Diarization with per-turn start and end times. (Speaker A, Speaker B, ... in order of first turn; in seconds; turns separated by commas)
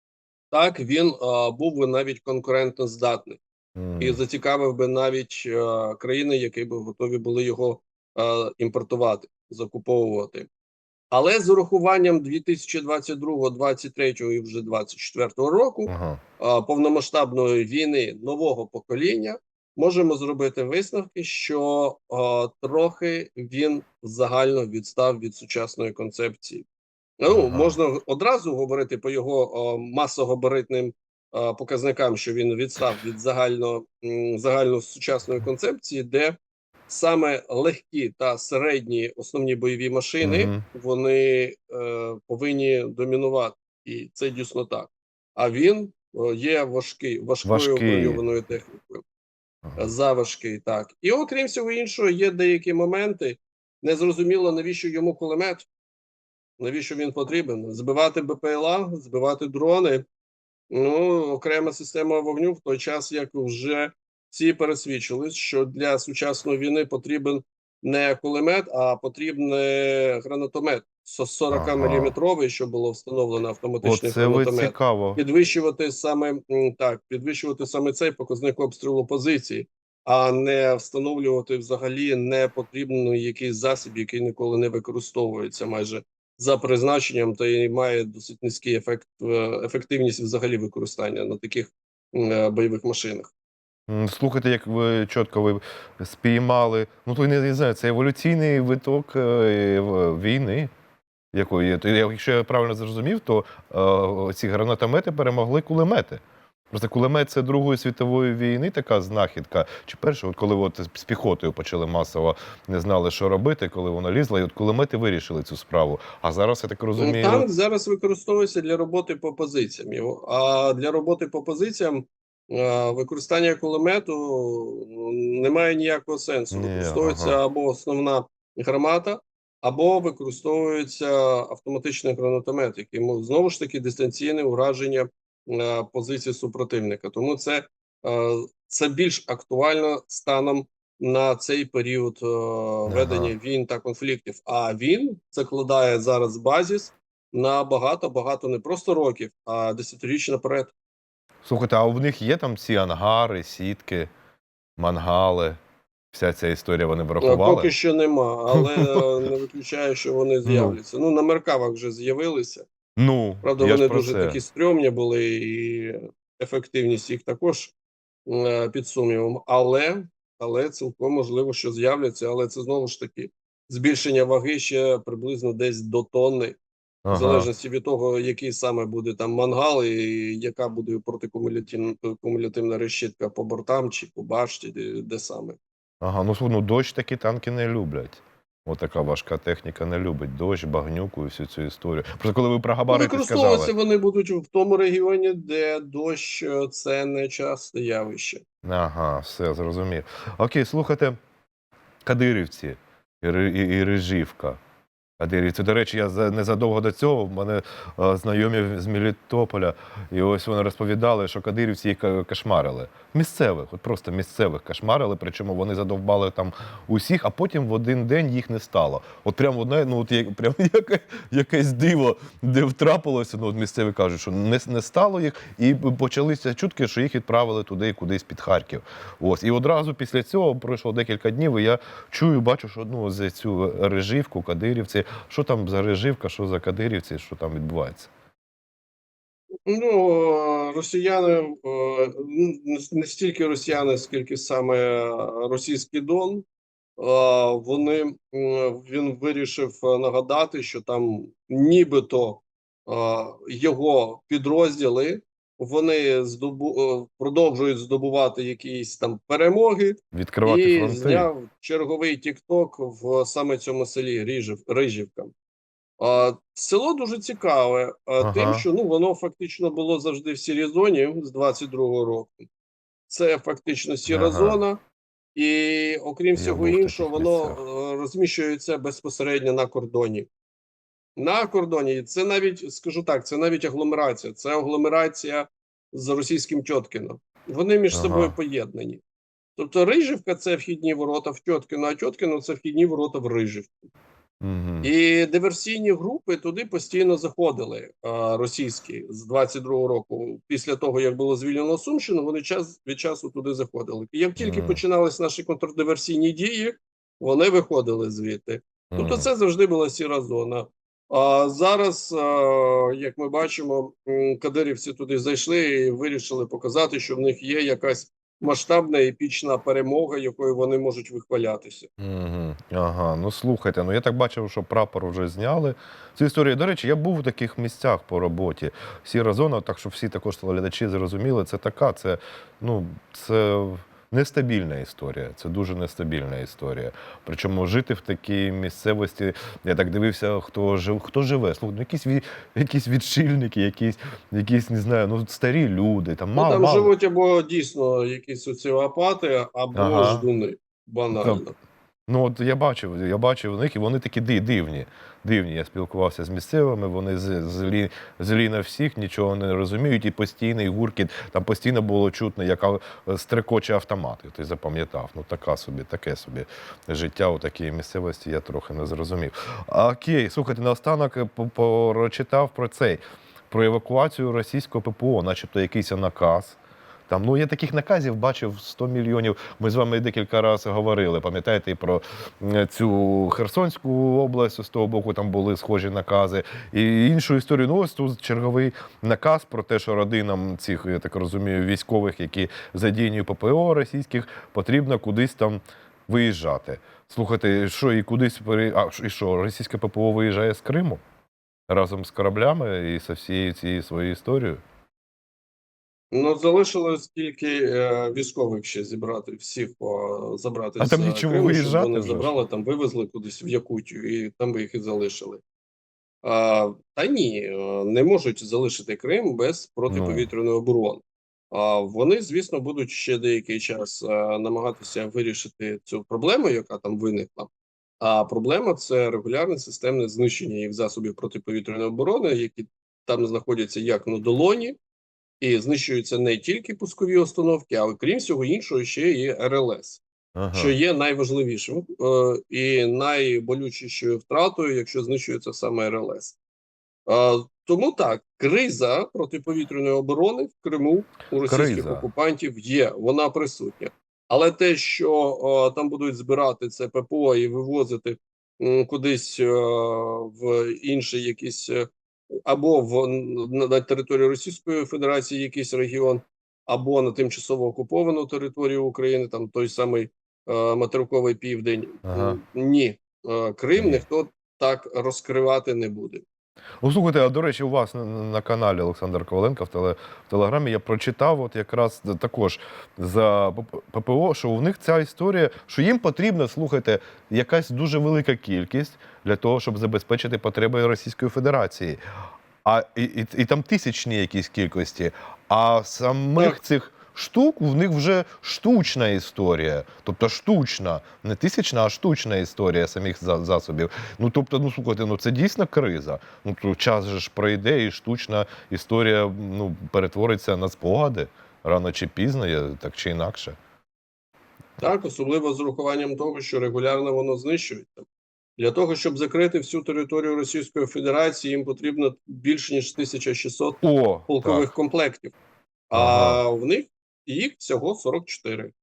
Speaker A: 0.5-3.4, Speaker B: 3.8-4.2, Speaker A: 4.0-10.5, Speaker A: 11.1-26.6, Speaker B: 15.9-16.2, Speaker A: 27.2-36.4, Speaker B: 27.3-27.8, Speaker A: 36.9-49.0, Speaker B: 40.2-40.6, Speaker B: 47.4-48.2, Speaker A: 49.8-55.7, Speaker A: 56.6-60.1, Speaker A: 60.7-93.3, Speaker B: 71.5-72.1, Speaker B: 73.8-75.2, Speaker B: 93.9-100.7, Speaker B: 101.3-117.5, Speaker A: 117.0-150.7, Speaker B: 126.5-127.4, Speaker B: 142.9-143.3, Speaker B: 151.4-154.1, Speaker B: 154.8-155.6, Speaker B: 156.1-157.7, Speaker A: 157.2-162.7, Speaker B: 158.5-159.1, Speaker B: 160.4-160.8, Speaker B: 163.0-164.4, Speaker A: 163.4-167.7, Speaker A: 168.3-176.6, Speaker B: 177.0-177.5, Speaker A: 177.1-185.6, Speaker B: 186.0-193.7, Speaker A: 192.9-198.4, Speaker B: 198.6-201.2, Speaker B: 202.0-204.6, Speaker B: 205.2-238.1, Speaker A: 239.7-246.4, Speaker A: 247.0-265.3, Speaker B: 260.1-261.3, Speaker A: 266.0-272.5, Speaker B: 268.2-268.6, Speaker A: 273.1-274.8, Speaker B: 274.1-274.6, Speaker A: 275.3-280.3, Speaker B: 276.3-277.6, Speaker A: 281.1-289.0, Speaker B: 287.9-288.3, Speaker A: 289.6-293.9, Speaker B: 294.4-294.9, Speaker A: 294.8-321.9, Speaker B: 304.4-304.8, Speaker B: 308.9-309.3, Speaker B: 322.0-346.9, Speaker A: 346.4-351.5, Speaker B: 349.7-350.2, Speaker B: 351.1-351.4, Speaker B: 352.1-376.6, Speaker B: 377.1-401.0, Speaker B: 401.7-404.6, Speaker A: 406.1-415.4, Speaker B: 410.8-412.3, Speaker A: 416.2-434.8, Speaker B: 419.9-420.3, Speaker A: 435.4-440.0, Speaker B: 440.4-440.7, Speaker A: 440.5-446.4, Speaker A: 447.1-476.2, Speaker B: 451.4-452.1, Speaker B: 472.1-472.4, Speaker B: 473.8-474.0, Speaker B: 476.8-492.0, Speaker B: 492.6-513.6, Speaker A: 514.8-518.0, Speaker A: 518.6-525.3, Speaker B: 523.8-524.7, Speaker A: 525.9-528.7, Speaker B: 525.9-526.4